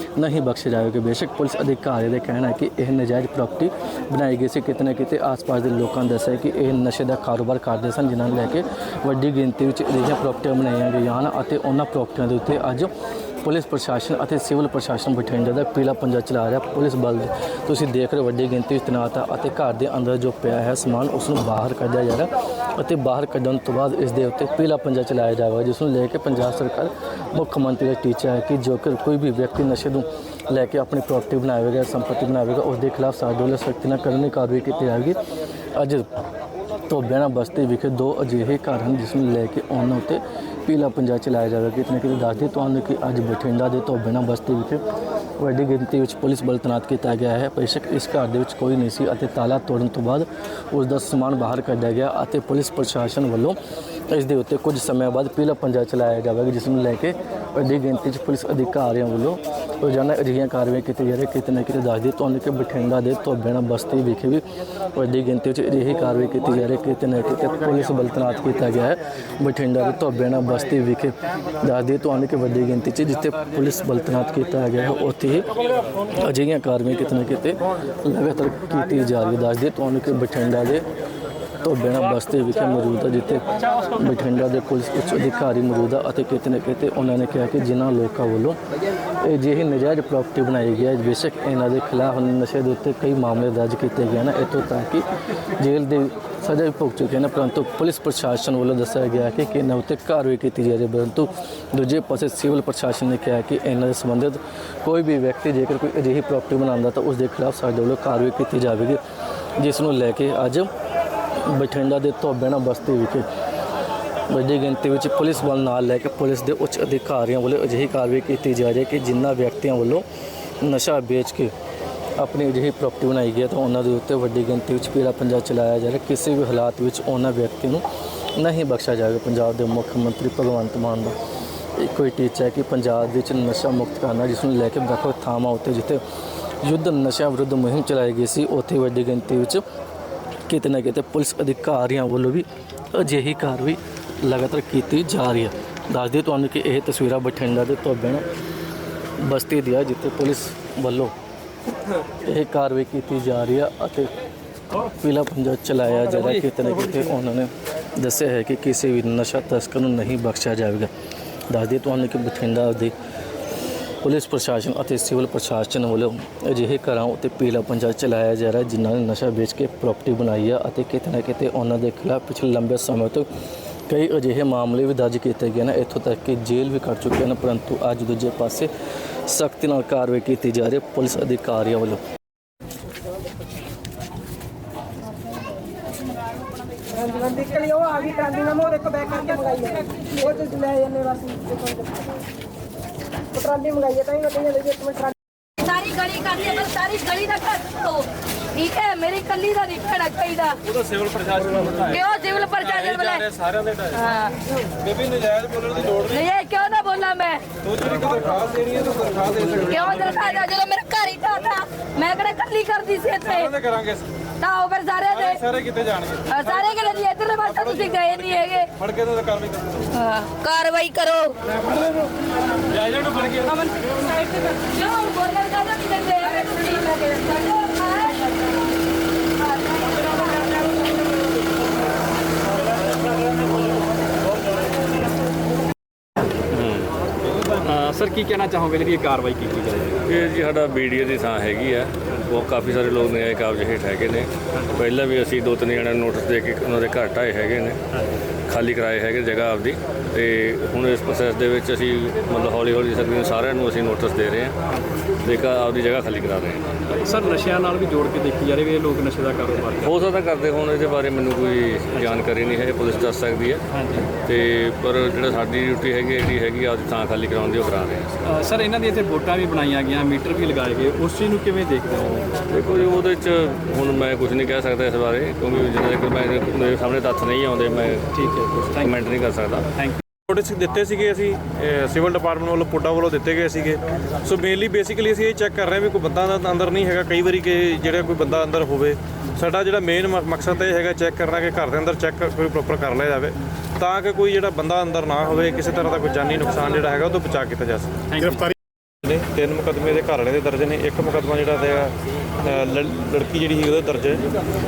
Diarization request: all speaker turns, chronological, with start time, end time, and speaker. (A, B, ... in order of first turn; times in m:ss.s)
0:00.2-0:12.9 A
0:13.4-0:35.2 A
0:35.8-0:36.1 A
0:36.9-0:44.8 A
0:45.4-0:53.6 A
0:54.1-1:15.6 A
1:16.1-1:20.9 A
1:21.6-1:28.6 A
1:29.2-1:35.0 A
1:35.6-1:49.0 A
1:49.6-1:50.7 A
1:51.4-1:53.3 A
1:54.3-2:00.0 A
2:00.6-2:01.5 A
2:02.2-2:07.8 A
2:08.4-2:11.2 A
2:11.8-2:16.0 A
2:16.6-2:19.6 A
2:20.5-2:28.2 A
2:29.2-2:31.1 A
2:32.2-2:34.1 A
2:34.8-2:40.9 A
2:41.5-2:43.0 A
2:44.0-2:53.3 A
2:53.9-2:58.7 A
2:59.2-3:02.0 A
3:07.3-3:09.7 B
3:10.3-3:11.8 B
3:13.7-3:15.0 B
3:15.6-3:20.7 C
3:20.8-3:21.9 D
3:21.9-3:23.3 C
3:22.7-3:24.1 D
3:23.9-3:24.4 C
3:24.8-3:26.1 D
3:26.0-3:27.5 C
3:27.6-3:30.4 D
3:29.6-3:33.5 C
3:33.2-3:34.1 D
3:34.4-3:35.4 C
3:35.1-3:36.6 D
3:36.3-3:38.7 C
3:37.6-3:37.8 D
3:38.8-3:39.9 D
3:39.9-3:41.4 C
3:43.1-3:48.4 C
3:49.8-3:50.1 C
3:56.5-3:56.9 E
3:57.6-4:00.0 F
4:00.0-4:07.8 E
4:08.5-4:14.6 E
4:15.2-4:16.7 E
4:16.9-4:20.0 F
4:19.8-4:23.6 E
4:23.7-4:24.1 F
4:24.2-4:28.1 E
4:28.3-4:32.4 F
4:32.5-4:38.2 E
4:38.2-4:38.9 F
4:38.8-4:39.7 E
4:40.3-4:58.0 D
4:58.1-4:58.5 F
4:59.0-5:04.3 D